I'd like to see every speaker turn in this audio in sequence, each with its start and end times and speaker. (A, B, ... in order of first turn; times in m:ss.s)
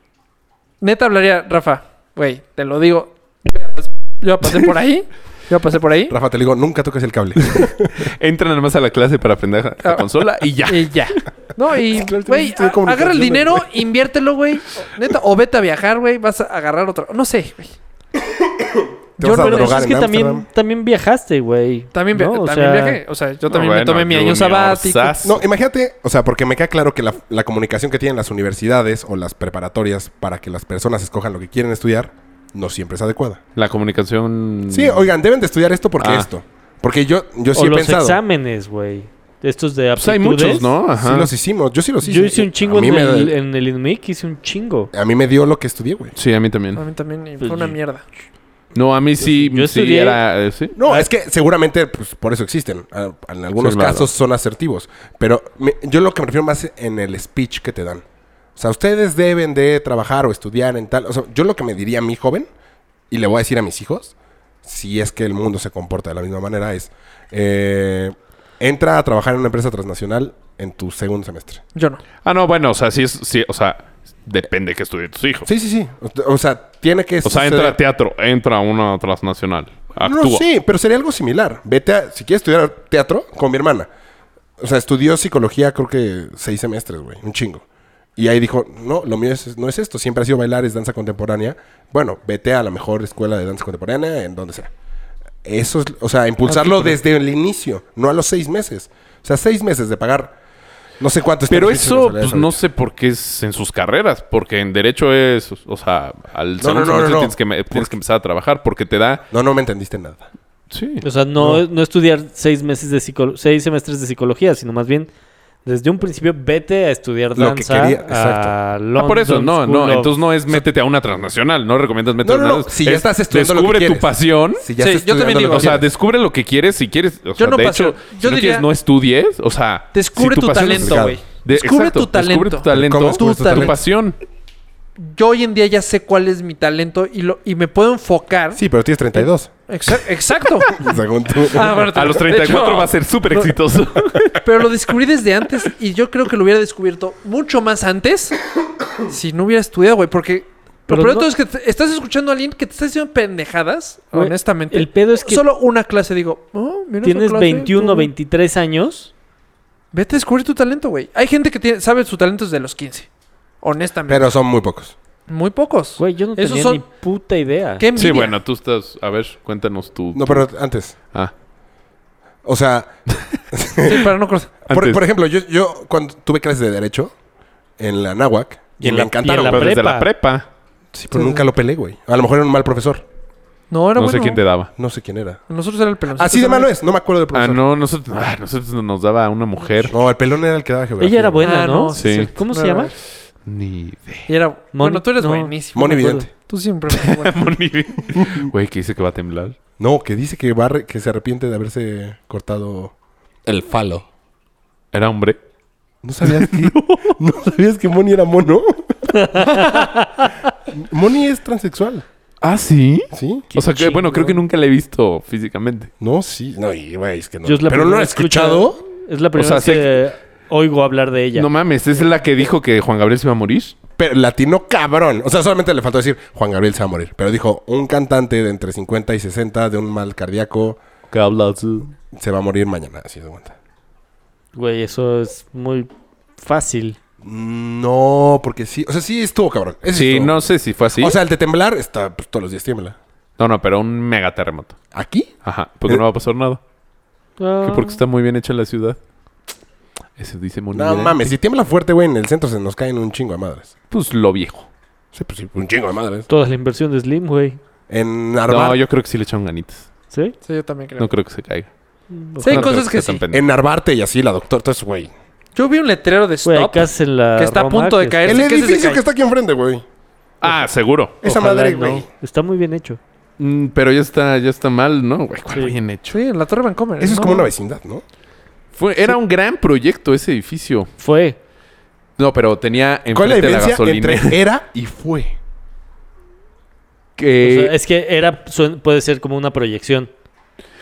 0:00.8-0:06.1 A
0:06.1-0:08.1 B
0:07.5-0:10.9 C
0:10.7-0:17.7 A
0:11.7-0:13.7 B
0:18.6-0:20.5 B
0:19.2-0:19.9 A
0:19.2-0:23.0 D
0:21.9-0:25.2 A
0:23.5-0:25.4 C
0:25.2-0:33.4 B
0:33.5-0:35.1 C
0:34.7-0:38.2 B
0:36.0-0:36.3 C
0:37.5-0:40.7 D
0:40.0-0:41.3 C
0:41.0-0:43.3 B
0:42.0-0:44.9 D
0:44.9-0:46.1 B
0:46.2-0:46.8 C
0:46.8-0:48.0 A
0:47.4-0:47.7 D
0:48.7-0:50.7 C
0:49.2-0:50.2 D
0:50.8-0:58.0 B
0:53.6-0:54.1 C
0:58.6-1:02.5 B
1:03.1-1:11.6 B
1:11.7-1:12.0 A
1:12.2-1:15.5 C
1:15.4-1:17.8 B
1:17.2-1:20.4 C
1:20.0-1:23.9 B
1:24.6-1:27.6 B
1:28.2-1:34.7 B
1:35.4-1:40.4 B
1:36.5-1:36.9 C
1:41.0-1:42.6 B
1:41.5-1:49.2 C
1:46.6-1:47.9 B
1:49.3-1:50.3 B
1:50.7-1:51.0 C
1:51.0-1:55.1 D
1:51.4-1:51.6 B
1:55.6-2:00.1 D
1:57.3-1:58.6 B
1:59.0-2:04.7 C
2:02.2-2:05.8 B
2:04.8-2:05.8 A
2:05.4-2:14.2 C
2:07.4-2:08.7 A
2:09.9-2:13.8 A
2:10.5-2:11.2 B
2:12.7-2:13.8 B
2:15.0-2:18.6 A
2:18.5-2:19.5 B
2:19.2-2:20.9 A
2:20.7-2:21.9 B
2:21.4-2:23.5 A
2:21.9-2:24.4 C
2:24.4-2:28.4 A
2:29.0-2:38.1 A
2:30.9-2:31.3 D
2:34.1-2:35.4 D
2:37.0-2:39.1 D
2:39.9-2:43.1 A
2:43.6-2:44.3 A
2:44.1-2:44.9 B
2:45.3-2:46.8 A
2:46.0-2:47.8 D
2:47.8-2:48.4 A
2:47.9-2:50.5 C
2:50.1-2:51.0 B
2:52.4-2:53.0 B
2:53.5-2:54.1 B
2:53.8-2:54.5 A
2:54.6-2:57.1 B
2:54.7-2:55.0 C
2:57.8-2:59.9 B
2:58.8-3:00.1 D
2:59.4-3:00.5 C
3:00.9-3:03.0 B
3:01.1-3:01.5 A
3:03.7-3:04.4 A
3:04.0-3:04.7 C
3:04.8-3:05.4 B
3:05.5-3:06.7 A
3:06.2-3:07.6 B
3:07.3-3:09.9 C
3:09.9-3:11.5 B
3:11.0-3:12.9 D
3:11.4-3:12.9 A
3:11.9-3:12.3 C
3:13.4-3:14.3 C
3:14.3-3:17.5 A
3:14.7-3:16.2 D
3:15.7-3:16.3 B
3:16.9-3:19.6 C
3:18.2-3:18.5 B
3:19.8-3:22.9 B
3:23.4-3:24.0 B
3:24.9-3:25.4 C
3:26.0-3:29.4 B
3:26.2-3:27.2 C
3:29.1-3:30.3 D
3:30.7-3:32.0 B
3:32.4-3:35.9 C
3:33.1-3:33.5 B
3:33.5-3:34.4 D
3:36.0-3:38.8 B
3:37.4-3:41.5 D
3:39.3-3:40.0 C
3:41.3-3:43.8 C
3:44.0-3:50.8 B
3:51.1-3:51.9 C
3:52.1-3:53.5 B
3:54.5-3:57.0 D
3:57.2-4:00.3 B
3:59.9-4:01.2 C
4:00.9-4:03.0 B
4:03.4-4:04.8 C
4:04.9-4:05.3 B
4:05.4-4:06.6 C
4:07.4-4:08.0 D
4:07.6-4:09.0 C
4:10.2-4:11.3 C
4:10.7-4:13.7 B
4:13.9-4:14.7 C
4:15.1-4:16.3 B
4:16.3-4:17.6 D
4:17.9-4:18.8 B
4:18.5-4:19.9 C
4:20.1-4:20.4 D
4:20.4-4:21.1 A
4:21.0-4:21.7 C
4:22.1-4:22.7 D
4:22.4-4:23.5 C
4:22.4-4:23.2 A
4:23.3-4:25.1 B
4:25.6-4:29.0 A
4:26.4-4:28.5 D
4:28.3-4:29.8 B
4:30.4-4:31.2 C
4:31.2-4:32.1 B
4:31.2-4:33.0 D
4:33.4-4:36.2 C
4:36.1-4:37.5 A
4:37.0-4:38.0 B
4:38.7-4:40.9 C
4:41.0-4:41.4 D
4:42.2-4:44.4 C
4:43.1-4:45.4 B
4:47.2-4:47.7 C
4:47.4-4:50.1 D